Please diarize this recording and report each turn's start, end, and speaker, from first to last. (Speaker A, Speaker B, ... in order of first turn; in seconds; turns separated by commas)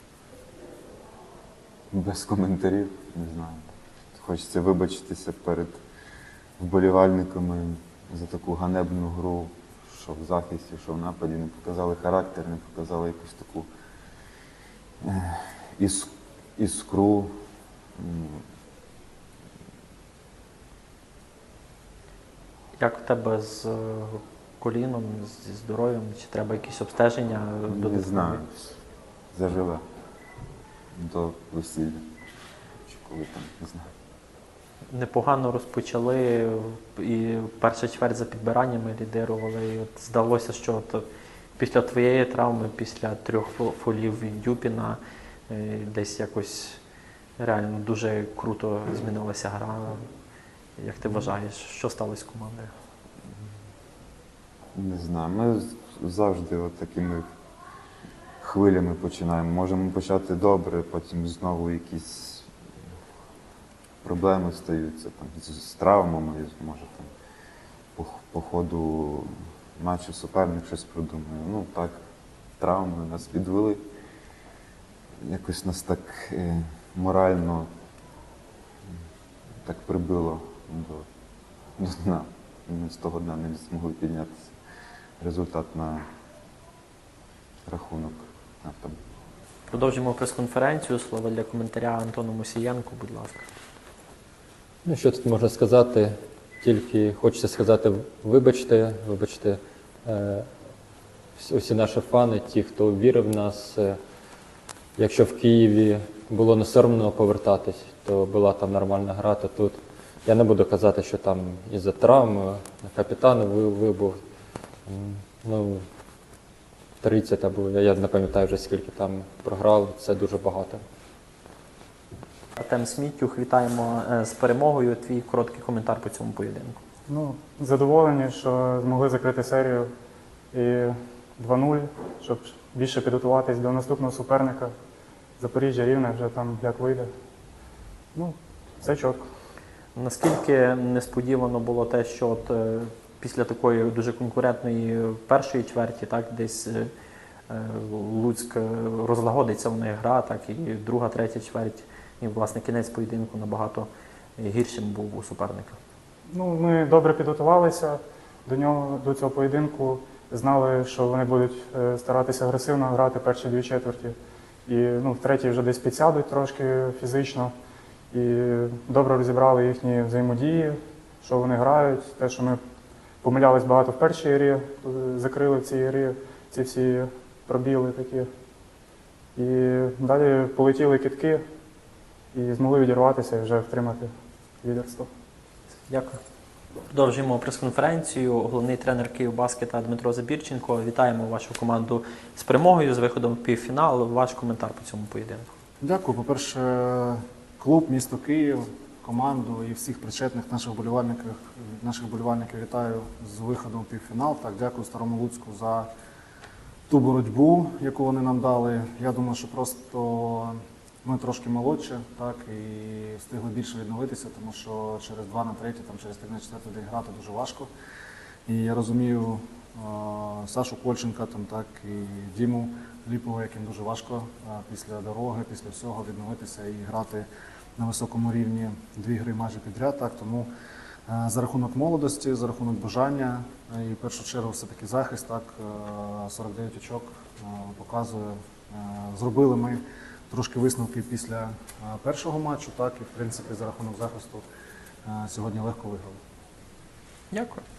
Speaker A: 1.9-5.8, Speaker A: 6.6-13.7, Speaker A: 15.0-17.3, Speaker A: 18.0-18.4, Speaker B: 22.8-28.4, Speaker A: 27.7-28.6, Speaker A: 29.3-29.8, Speaker A: 31.0-32.0, Speaker A: 32.9-33.9, Speaker B: 34.9-41.0, Speaker B: 41.6-46.8, Speaker B: 47.4-50.0, Speaker B: 50.8-52.7, Speaker A: 54.7-57.2, Speaker A: 58.4-62.5, Speaker A: 64.0-67.1, Speaker A: 68.0-72.0, Speaker A: 72.6-73.8, Speaker A: 75.2-77.7, Speaker A: 79.6-81.0, Speaker A: 81.8-84.5, Speaker A: 85.2-86.0, Speaker A: 87.7-89.0, Speaker B: 89.7-93.5, Speaker C: 94.8-100.5, Speaker C: 101.4-104.0, Speaker C: 105.0-114.2, Speaker C: 114.9-115.8, Speaker C: 117.0-120.8, Speaker B: 122.6-126.8, Speaker D: 127.1-129.9, Speaker D: 130.5-134.7, Speaker D: 135.4-137.1, Speaker D: 138.1-139.2, Speaker B: 139.9-146.9, Speaker B: 147.5-155.8, Speaker D: 156.3-164.1, Speaker D: 164.7-167.5, Speaker D: 168.1-172.6, Speaker D: 173.2-178.3, Speaker D: 179.3-181.4, Speaker D: 182.3-184.1, Speaker D: 184.6-185.1, Speaker B: 185.9-186.2, Speaker B: 186.9-195.5, Speaker E: 195.8-205.9, Speaker E: 206.9-217.7, Speaker E: 218.5-230.5, Speaker E: 231.1-244.4, Speaker E: 245.0-246.2, Speaker B: 247.3-247.6